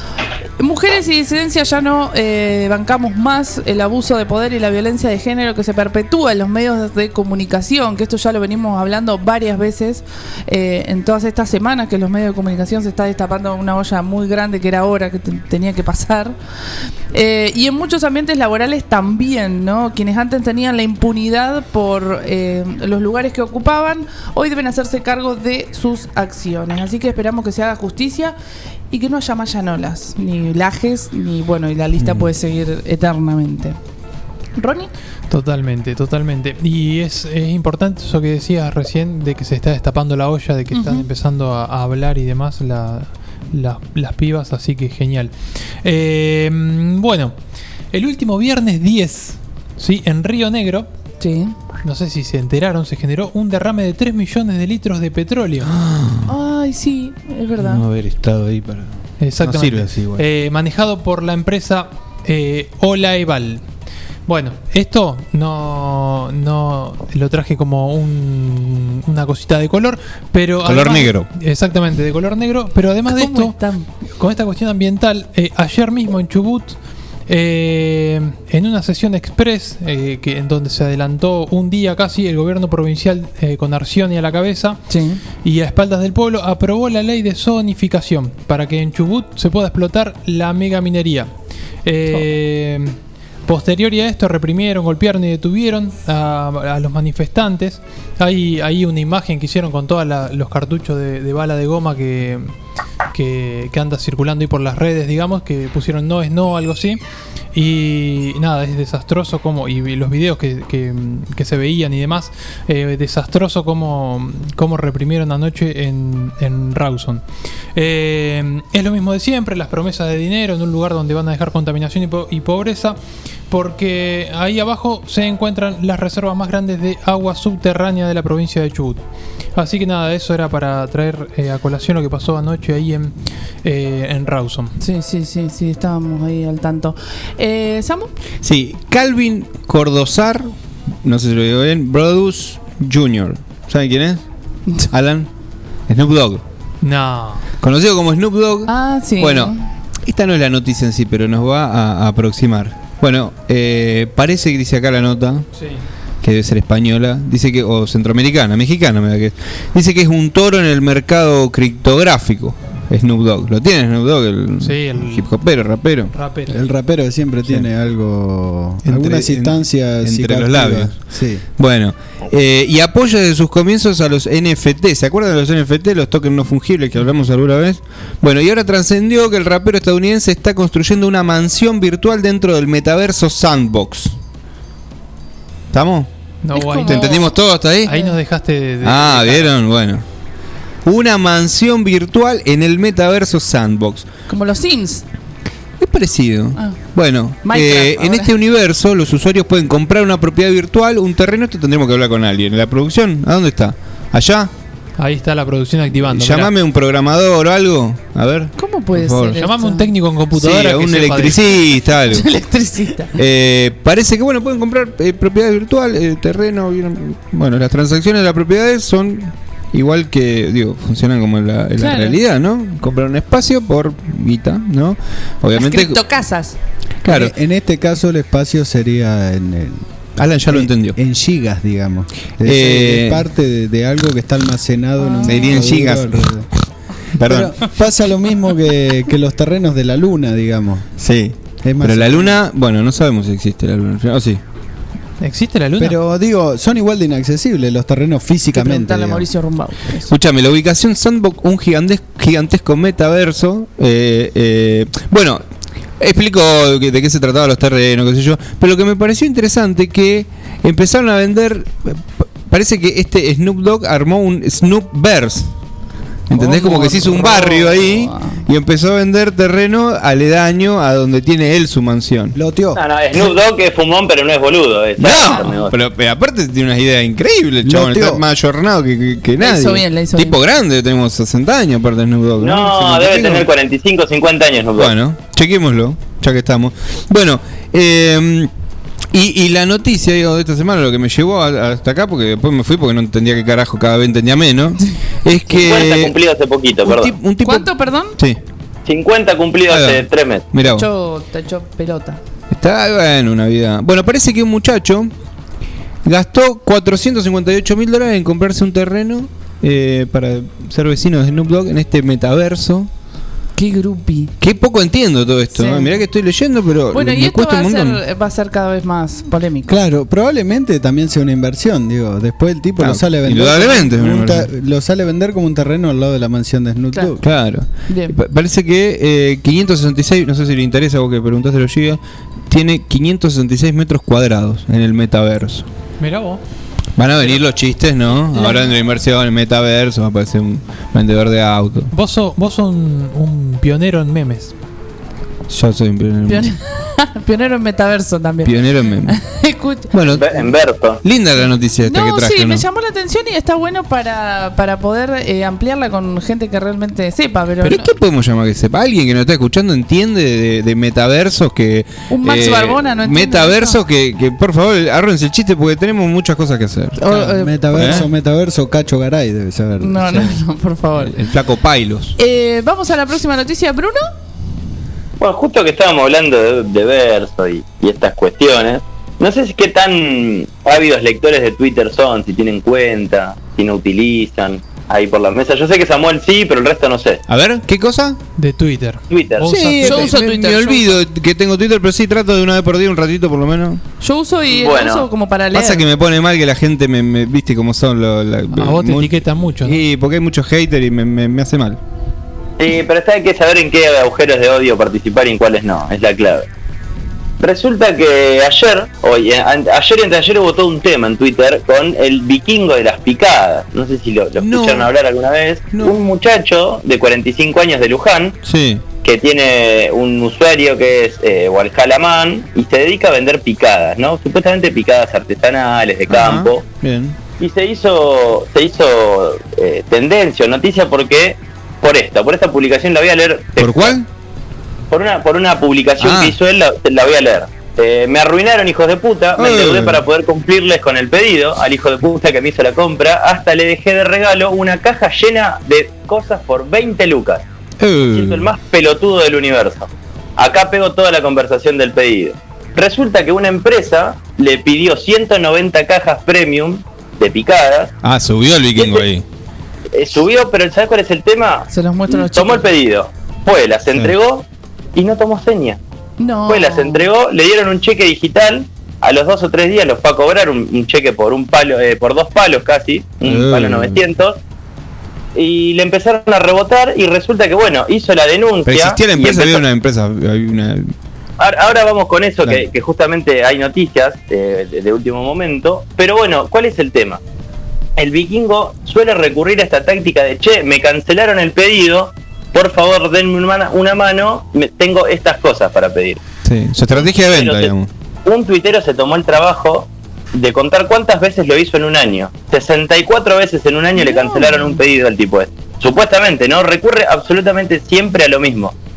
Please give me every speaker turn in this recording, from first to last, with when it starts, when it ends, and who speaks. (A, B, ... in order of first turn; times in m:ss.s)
0:00.6-0:16.4 A
0:17.1-0:28.3 A
0:28.9-0:33.8 A
0:32.0-0:32.3 B
0:34.6-0:34.9 A
0:35.3-0:47.4 C
0:40.7-0:41.0 A
0:47.9-0:50.9 C
0:51.2-0:51.5 A
0:51.8-0:55.7 C
0:55.6-0:56.3 B
0:56.3-0:57.8 A
0:57.6-1:00.2 B
0:59.2-1:03.7 C
1:04.3-1:13.6 C
1:10.6-1:11.3 B
1:13.1-1:13.9 A
1:14.2-1:24.8 C
1:24.9-1:25.2 A
1:25.4-1:42.5 C
1:43.1-1:47.0 C
1:47.5-1:57.2 C
1:57.7-2:09.0 C
2:09.6-2:14.7 C
2:14.8-2:18.1 A
2:18.4-2:20.5 B
2:21.0-2:24.2 B
2:24.8-2:25.3 B
2:25.9-2:26.4 B
2:26.8-2:27.4 C
2:27.6-2:35.5 B
2:28.7-2:29.7 A
2:36.2-2:46.2 B
2:44.6-2:45.3 C
2:46.1-2:46.6 C
2:46.5-2:51.4 D
2:47.5-2:47.7 B
2:48.8-2:51.0 B
2:51.6-3:04.2 B
3:05.7-3:06.1 B
3:06.4-3:09.5 C
3:06.5-3:07.4 A
3:06.8-3:07.9 B
3:07.9-3:08.2 A
3:08.8-3:10.0 B
3:10.8-3:14.1 B
3:14.3-3:15.0 A
3:15.8-3:24.5 B
3:17.4-3:18.3 A
3:25.0-3:26.5 C
3:26.1-3:29.4 B
3:28.6-3:29.9 A
3:29.3-3:31.4 C
3:30.3-3:32.3 B
3:32.1-3:33.2 A
3:33.2-3:46.0 B
3:41.8-3:42.2 A
3:45.6-3:46.6 A
3:47.0-3:49.8 D
3:47.0-3:47.3 B
3:50.2-3:51.0 B
3:50.5-3:56.5 D
3:52.4-3:53.3 B
3:55.0-3:55.5 A
3:55.2-3:56.4 B
3:57.1-3:57.7 B
3:57.2-4:00.9 D
4:01.0-4:04.4 B
4:01.6-4:02.4 D
4:05.2-4:06.0 C
4:05.8-4:09.3 D
4:08.5-4:10.1 A
4:10.1-4:15.4 B
4:16.0-4:25.5 B
4:26.3-4:32.4 B
4:26.3-4:28.4 A
4:32.4-4:32.8 D
4:32.8-4:35.8 E
4:35.0-4:43.5 B
4:37.6-4:38.2 D
4:39.4-4:40.4 A
4:42.4-4:44.9 E
4:44.8-4:48.5 B
4:49.1-4:56.1 B
4:55.5-4:57.1 E
4:56.8-4:58.4 B
4:57.4-4:58.2 A
4:58.9-5:00.4 E
4:59.7-5:00.9 B
5:00.6-5:02.2 A
5:02.5-5:05.1 B
5:06.0-5:12.9 B
5:13.6-5:14.3 A
5:14.4-5:18.0 B
5:15.5-5:16.0 A
5:16.9-5:19.8 A
5:19.7-5:27.2 D
5:22.8-5:24.5 B
5:27.2-5:35.7 B
5:27.9-5:28.2 A
5:36.0-5:36.4 C
5:37.0-5:41.9 B
5:38.4-5:38.7 A
5:41.9-5:44.5 C
5:45.5-5:46.5 B
5:46.3-5:49.9 A
5:48.4-5:49.2 B
5:49.9-5:50.4 B
5:50.0-5:51.0 E
5:51.0-5:52.6 B
5:51.8-5:57.9 A
5:57.6-6:07.0 B
6:02.1-6:03.8 A
6:07.0-6:07.5 A
6:07.1-6:10.2 D
6:07.7-6:08.1 B
6:09.8-6:11.2 A
6:11.0-6:12.2 B
6:12.2-6:14.0 A
6:15.2-6:27.2 E
6:27.3-6:28.2 B
6:28.4-6:30.2 C
6:29.1-6:29.5 E
6:29.5-6:33.8 B
6:29.8-6:31.0 A
6:34.0-6:35.8 A
6:34.5-6:35.1 E
6:35.5-6:41.8 B
6:38.5-6:39.8 C
6:42.6-6:46.5 E
6:47.4-6:58.4 E
6:54.4-6:54.9 B
6:58.4-6:58.8 B
6:59.0-7:06.6 E
7:06.1-7:07.2 B
7:07.4-7:14.0 E
7:13.6-7:14.1 B
7:14.9-7:27.4 E
7:16.0-7:16.4 B
7:19.4-7:20.0 B
7:27.8-7:28.5 B
7:28.1-7:37.9 E
7:38.0-7:39.2 B
7:38.8-7:39.1 E
7:39.9-7:44.4 E
7:41.7-7:42.7 A
7:45.0-7:45.8 E
7:46.2-7:47.1 A
7:46.5-7:54.4 E
7:53.2-7:54.0 B
7:55.4-7:59.6 E
7:58.7-8:00.9 B
8:01.4-8:07.2 E
8:08.0-8:16.2 E
8:16.4-8:17.9 B
8:16.9-8:17.7 E
8:18.3-8:28.7 E
8:24.0-8:24.8 A